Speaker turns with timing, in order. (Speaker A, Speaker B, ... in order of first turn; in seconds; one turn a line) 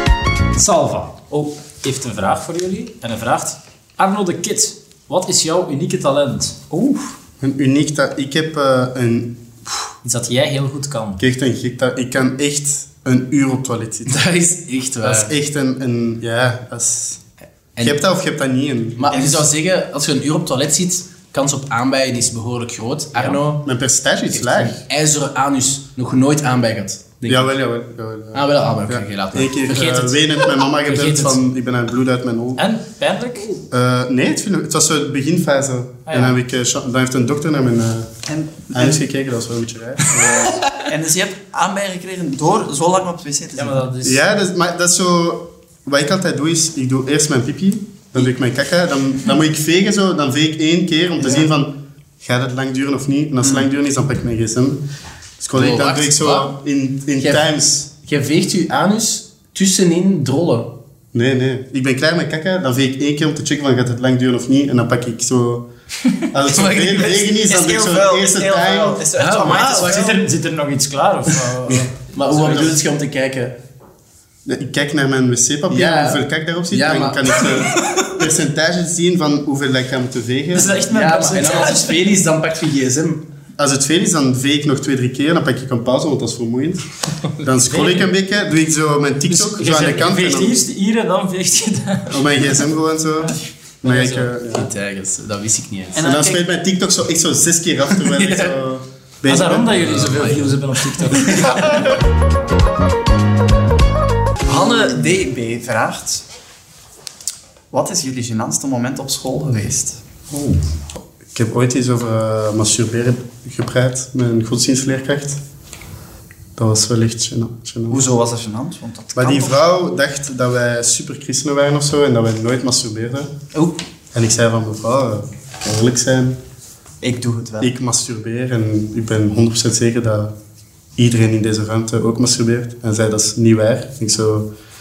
Speaker A: 0.5-6.6
Speaker B: 6.7-7.0
Speaker C: 7.4-9.8
Speaker A: 10.0-11.2
Speaker C: 11.2-14.2
Speaker D: 14.1-15.3
Speaker C: 15.0-17.2
Speaker C: 17.8-19.1
Speaker D: 19.0-23.6
Speaker B: 19.1-19.4
Speaker C: 23.6-24.8
Speaker D: 24.3-27.5
Speaker C: 27.3-32.6
Speaker D: 28.3-30.3
Speaker D: 30.9-31.3
Speaker A: 32.6-33.5
Speaker C: 33.7-38.1
Speaker A: 36.1-36.4
Speaker B: 38.3-39.0
Speaker C: 38.7-40.6
Speaker D: 40.2-40.7
Speaker B: 40.8-43.8
Speaker A: 43.6-44.2
Speaker C: 44.0-54.8
Speaker C: 55.4-57.9
Speaker D: 55.5-56.5
Speaker D: 57.2-57.5
Speaker D: 58.0-60.7
Speaker C: 61.1-65.7
Speaker C: 66.2-69.0
Speaker B: 66.5-70.2
Speaker D: 69.2-70.2
Speaker A: 69.4-71.9
Speaker C: 71.7-72.8
Speaker D: 72.1-73.5
Speaker C: 74.5-80.8
Speaker D: 75.7-77.7
Speaker A: 80.5-82.2
Speaker D: 80.8-83.2
Speaker C: 83.6-86.8
Speaker C: 87.4-90.6
Speaker A: 87.7-88.0
Speaker A: 89.3-92.6
Speaker C: 92.1-94.7
Speaker D: 93.9-96.2
Speaker C: 96.0-100.1
Speaker A: 96.0-96.3
Speaker D: 98.0-98.6
Speaker A: 99.3-101.9
Speaker D: 99.7-101.6
Speaker B: 104.4-106.2
Speaker B: 107.7-110.0
Speaker A: 110.3-110.6
Speaker C: 111.3-115.4
Speaker C: 116.5-118.0
Speaker B: 117.9-119.6
Speaker C: 119.2-123.3
Speaker C: 124.1-126.4
Speaker B: 127.0-127.7
Speaker C: 127.6-130.3
Speaker C: 131.0-134.5